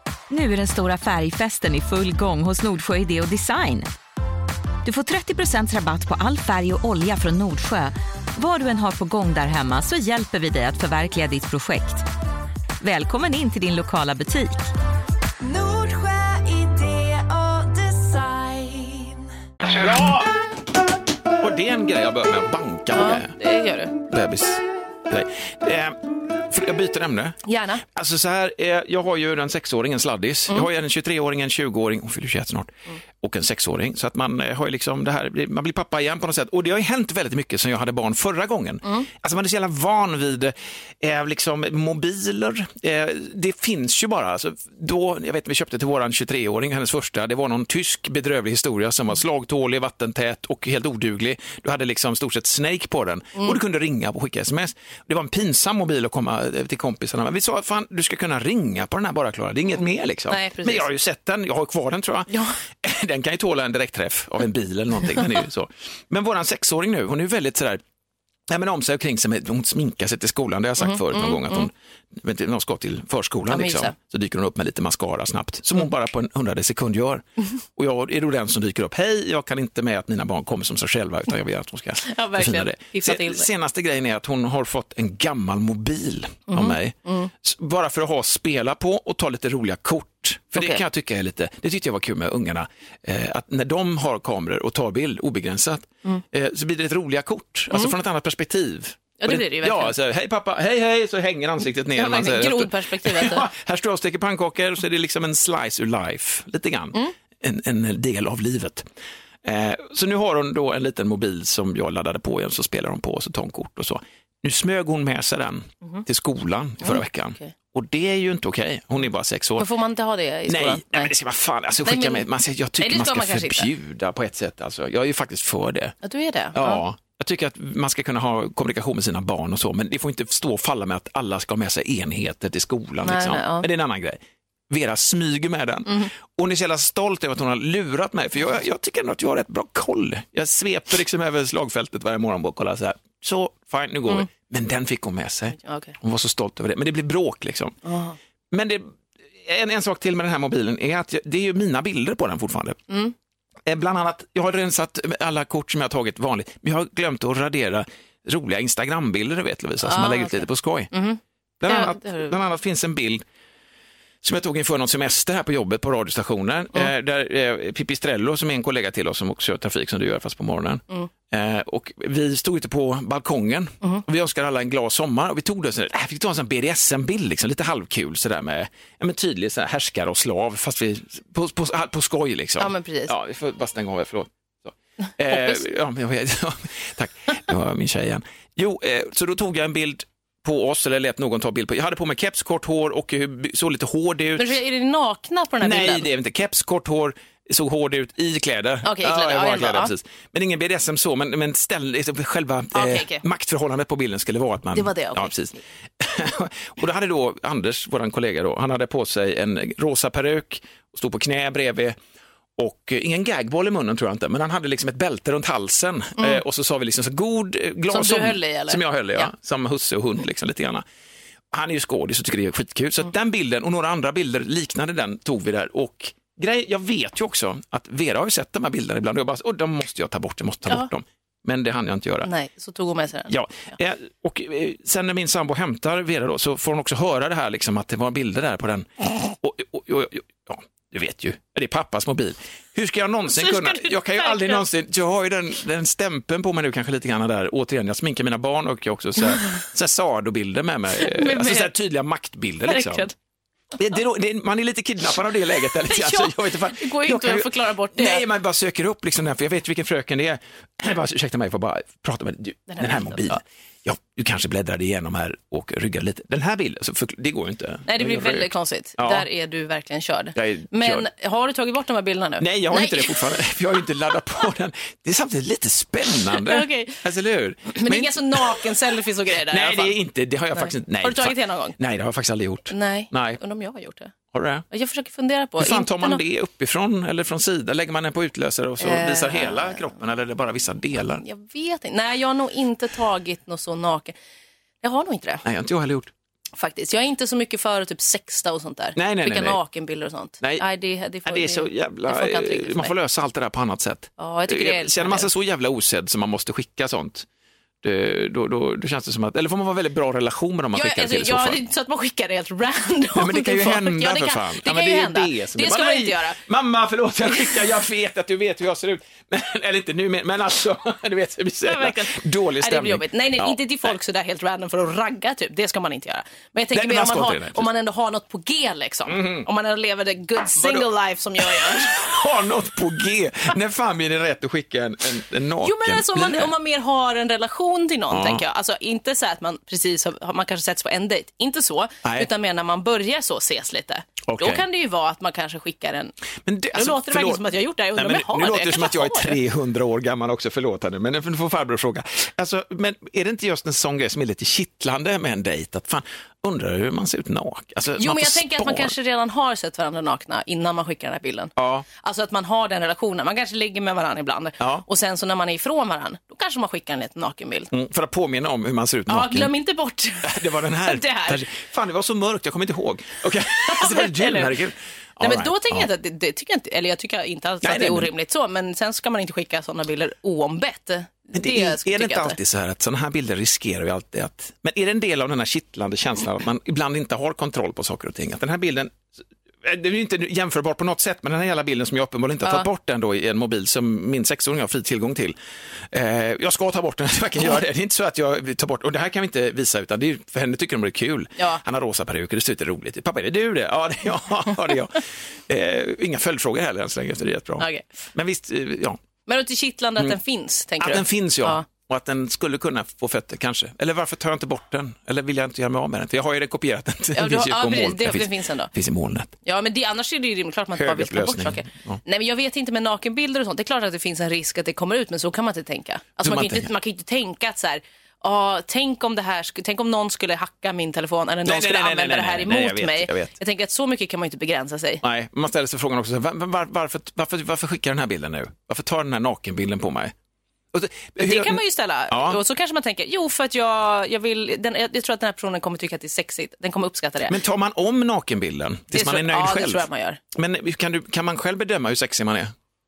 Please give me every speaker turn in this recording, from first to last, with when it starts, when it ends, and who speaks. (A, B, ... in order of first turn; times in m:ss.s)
0:00.3-0:03.9 A
0:04.8-0:12.1 A
0:12.8-0:14.7 A
0:15.4-0:19.3 B
0:19.6-0:20.3 C
0:21.4-0:23.4 C
0:22.9-0:23.9 D
0:24.0-1:07.8 C
0:27.4-0:27.8 D
1:00.3-1:00.8 D
1:08.5-1:48.9 C
1:10.8-1:11.7 D
1:13.5-1:13.9 D
1:22.0-1:23.5 D
1:26.5-1:27.3 D
1:30.6-1:30.8 D
1:39.2-1:39.9 D
1:42.0-1:43.5 D
1:49.4-1:59.7 C
1:56.8-1:57.5 D
1:59.6-2:01.1 D
2:00.5-2:05.9 C
2:01.8-2:02.3 D
2:02.8-2:03.7 D
2:06.0-2:06.8 D
2:06.5-2:27.8 C
2:13.0-2:13.6 D
2:25.6-2:25.9 D
2:27.8-2:28.2 D
2:28.5-2:32.8 C
2:32.9-2:33.1 D
2:33.6-2:40.9 C
2:39.8-2:42.3 D
2:41.6-2:43.2 C
2:44.2-3:14.5 C
3:02.6-3:03.1 D
3:05.2-3:05.6 D
3:14.4-3:16.0 D
3:15.6-3:32.0 C
3:18.8-3:19.9 D
3:22.7-3:23.2 D
3:24.7-3:25.6 D
3:32.6-3:40.8 C
3:37.9-3:39.3 D
3:41.5-3:52.3 C
3:52.2-3:53.3 D
3:53.3-4:13.1 C
4:03.3-4:04.6 D
4:11.0-4:11.7 D
4:12.6-4:13.1 D
4:13.8-4:29.2 C
4:15.8-4:18.2 D
4:22.7-4:23.3 D
4:27.9-4:33.4 D
4:30.3-4:31.0 C
4:32.4-4:38.7 C
4:36.3-4:37.0 D
4:37.7-4:40.0 D
4:39.4-4:43.4 C
4:40.6-4:41.7 D
4:42.7-4:44.1 D
4:44.3-4:44.6 C
4:44.7-4:46.2 D
4:45.6-4:51.2 C
4:48.8-4:49.9 D
4:51.2-4:54.1 D
4:54.8-4:55.4 D
4:55.4-4:56.1 C
4:56.6-5:02.9 D
4:59.0-4:59.6 C
5:01.2-5:07.3 C
5:04.2-5:05.3 D
5:07.8-5:11.6 C
5:10.7-5:16.4 D
5:13.1-5:23.6 C
5:17.3-5:17.6 D
5:21.7-5:32.2 D
5:26.7-5:27.7 C
5:29.1-5:29.5 C
5:30.6-5:30.9 C
5:31.4-5:36.5 C
5:35.6-5:46.1 D
5:38.1-5:38.4 C
5:44.2-5:44.6 C
5:46.4-5:47.4 C
5:46.7-5:49.4 D
5:47.9-5:58.9 C
5:58.0-6:07.7 D
6:01.6-6:01.8 C
6:07.7-6:09.5 C
6:09.1-6:11.4 D
6:10.2-6:15.9 C
6:13.6-6:14.6 D
6:15.2-6:22.4 D
6:17.6-6:18.1 C
6:21.3-6:29.1 C
6:29.6-6:35.4 C
6:35.9-6:49.0 C
6:47.6-6:48.0 D
6:49.2-6:51.6 D
6:50.8-6:59.3 C
6:57.2-6:58.7 D
6:59.4-7:15.0 D
7:00.8-7:02.0 C
7:06.2-7:06.7 C
7:11.4-7:13.3 C
7:15.0-7:20.1 C
7:20.7-7:22.4 C
7:21.2-7:27.3 D
7:27.3-7:32.5 C
7:28.9-7:30.2 D